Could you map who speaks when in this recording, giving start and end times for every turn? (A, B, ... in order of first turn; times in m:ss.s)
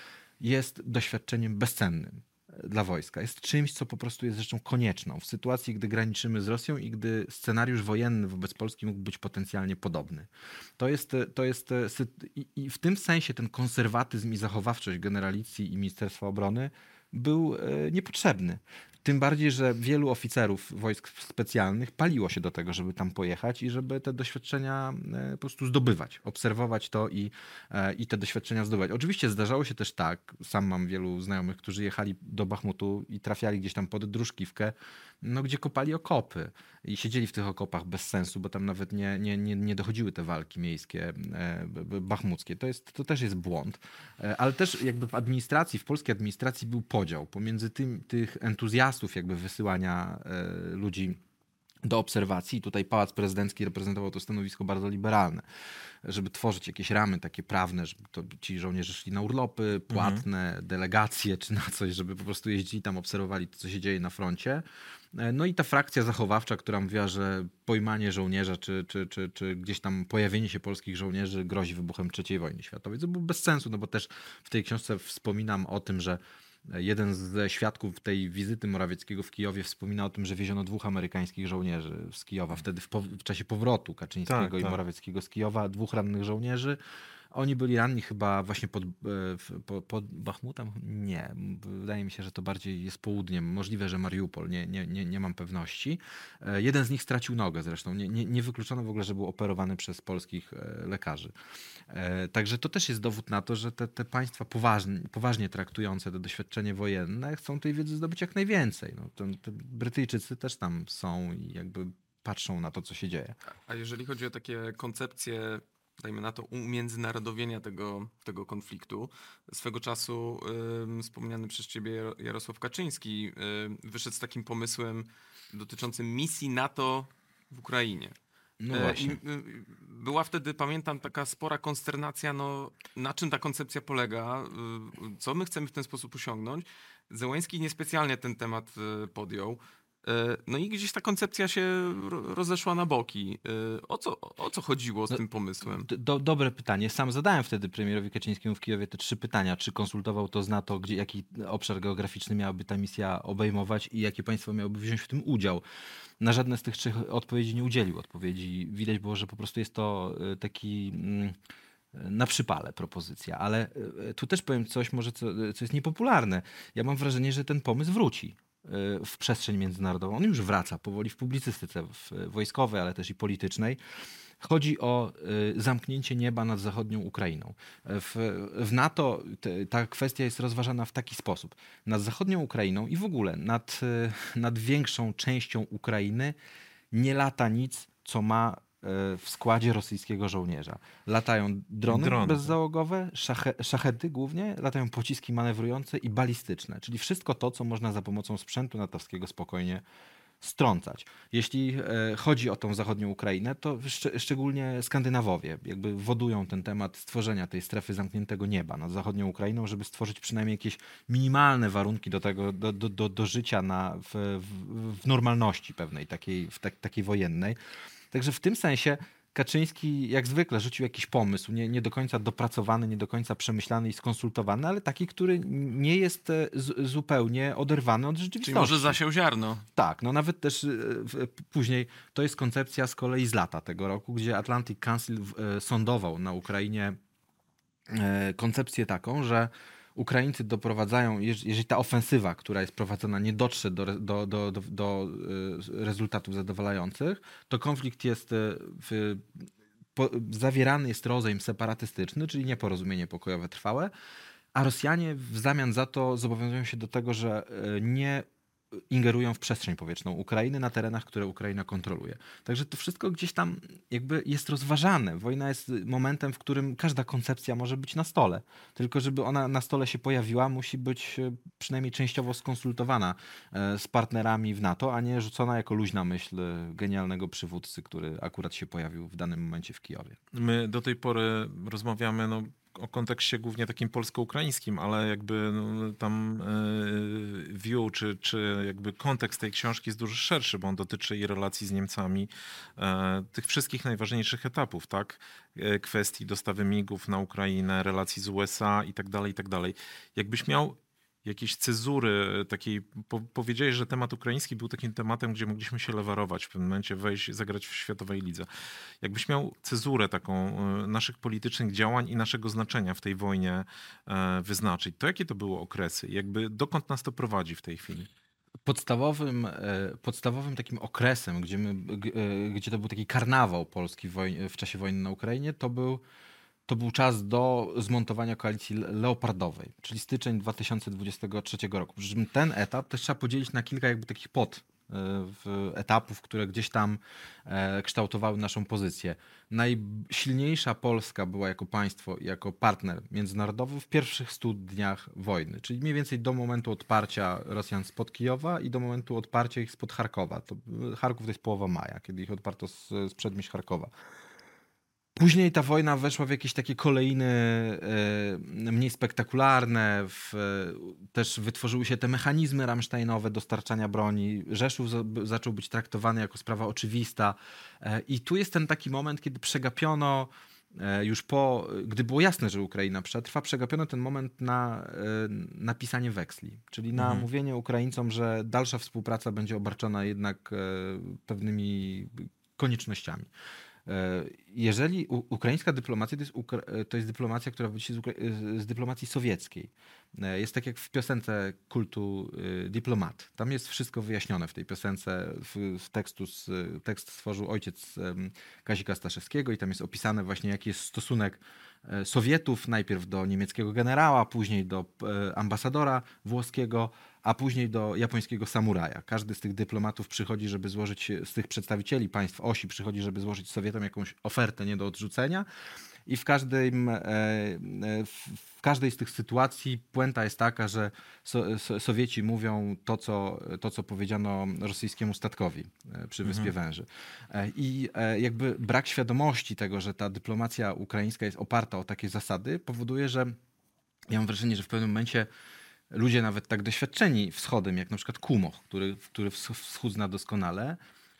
0:00.4-0:51.2 A
0:51.8-0:55.4 A
0:56.0-1:26.8 A
0:59.9-1:00.2 B
1:24.3-1:24.8 B
1:27.3-1:41.3 A
1:41.9-1:53.4 A
1:53.6-2:08.1 C
2:08.6-2:09.2 A
2:08.7-2:25.9 C
2:25.8-2:35.6 A
2:36.2-2:41.3 A
2:41.9-2:53.8 A
2:54.4-3:06.4 A
3:06.9-3:19.8 A
3:11.9-3:12.5 B
3:20.4-3:37.6 A
3:38.1-3:49.0 A
3:48.4-3:49.6 C
3:49.7-3:57.0 A
3:57.9-4:09.4 A
4:09.9-4:13.9 A
4:14.5-4:18.2 A
4:18.9-4:40.2 A
4:40.3-5:08.5 B
5:09.0-5:18.1 B
5:18.6-5:26.0 A
5:26.7-5:53.9 A
5:55.2-6:23.3 A
6:17.0-6:17.3 B
6:23.8-6:55.4 A
6:56.1-7:13.4 A
7:06.2-7:06.5 B
7:14.1-7:15.3 A
7:15.9-7:20.8 A